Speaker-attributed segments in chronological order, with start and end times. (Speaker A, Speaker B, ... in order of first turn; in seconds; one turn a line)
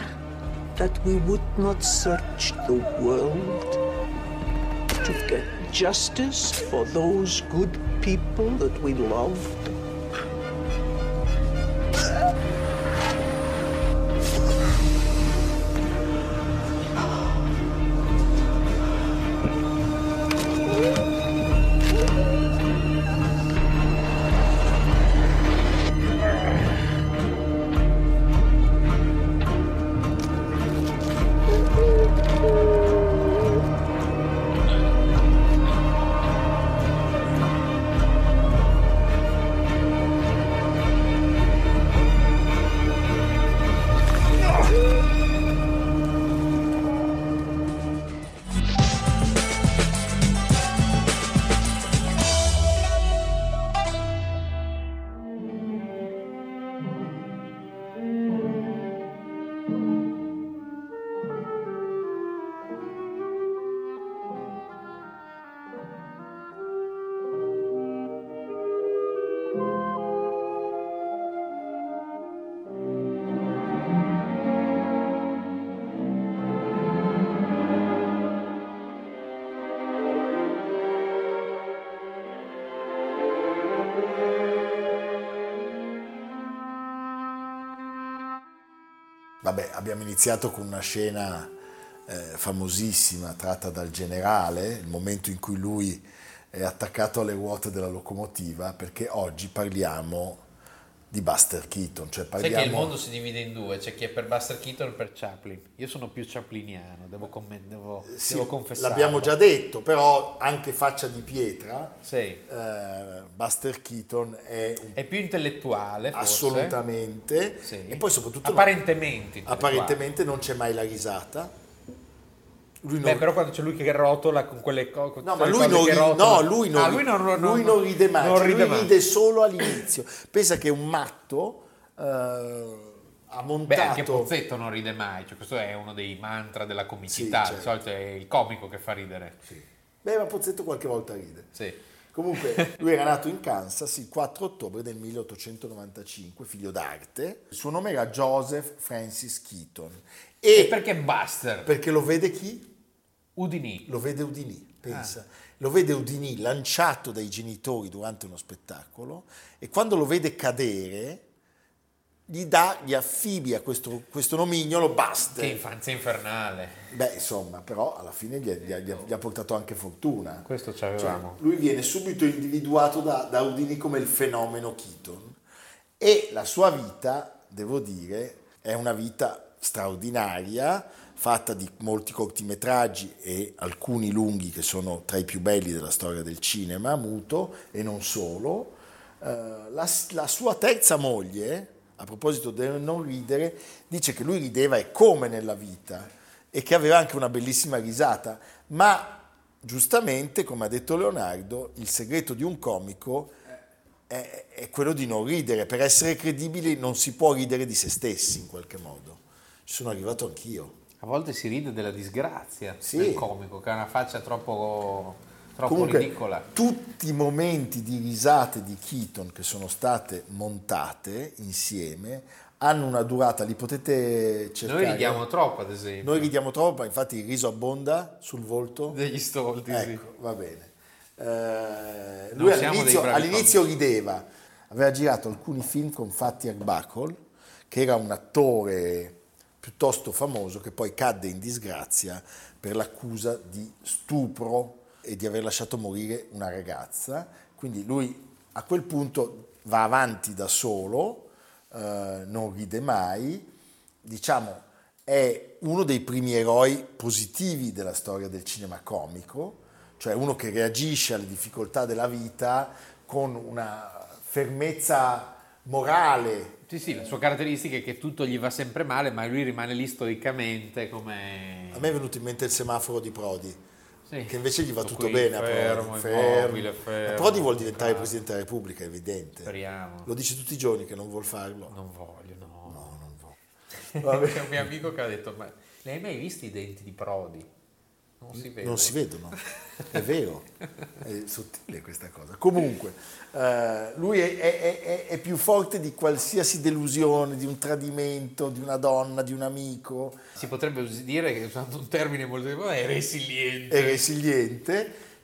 Speaker A: 0.8-3.8
Speaker A: 5.0-9.7
Speaker B: 89.4-91.5
Speaker B: 92.1-100.4
Speaker B: 101.1-102.9
Speaker C: 102.4-109.3
Speaker B: 108.0-115.0
Speaker C: 112.0-112.4
Speaker C: 115.0-116.8
Speaker B: 116.1-118.8
Speaker C: 117.6-120.0
Speaker B: 119.4-121.5
Speaker B: 122.8-123.3
Speaker C: 123.0-128.9
Speaker B: 125.2-134.3
Speaker C: 133.7-139.4
Speaker B: 137.1-137.7
Speaker B: 139.4-141.5
Speaker B: 142.1-150.8
Speaker C: 142.4-142.8
Speaker C: 150.5-151.7
Speaker B: 151.6-152.7
Speaker C: 153.3-153.9
Speaker B: 153.8-161.2
Speaker B: 162.3-165.6
Speaker C: 165.3-166.9
Speaker B: 166.9-170.4
Speaker C: 170.4-171.4
Speaker B: 171.0-175.4
Speaker B: 176.0-203.3
Speaker B: 204.1-210.8
Speaker C: 211.0-216.5
Speaker B: 212.8-213.2
Speaker B: 215.7-225.2
Speaker C: 224.6-226.3
Speaker B: 226.0-229.0
Speaker C: 228.9-230.0
Speaker B: 229.7-237.2
Speaker C: 232.3-233.7
Speaker B: 237.7-253.5
Speaker B: 254.0-266.6
Speaker C: 266.7-271.9
Speaker B: 271.7-273.6
Speaker C: 274.1-278.1
Speaker B: 274.3-279.5
Speaker C: 279.4-280.1
Speaker B: 280.1-281.7
Speaker C: 281.7-282.9
Speaker B: 282.7-283.4
Speaker C: 283.9-287.5
Speaker B: 283.9-284.7
Speaker C: 288.2-289.9
Speaker B: 288.3-290.5
Speaker B: 291.0-300.3
Speaker C: 300.4-304.0
Speaker B: 303.7-305.0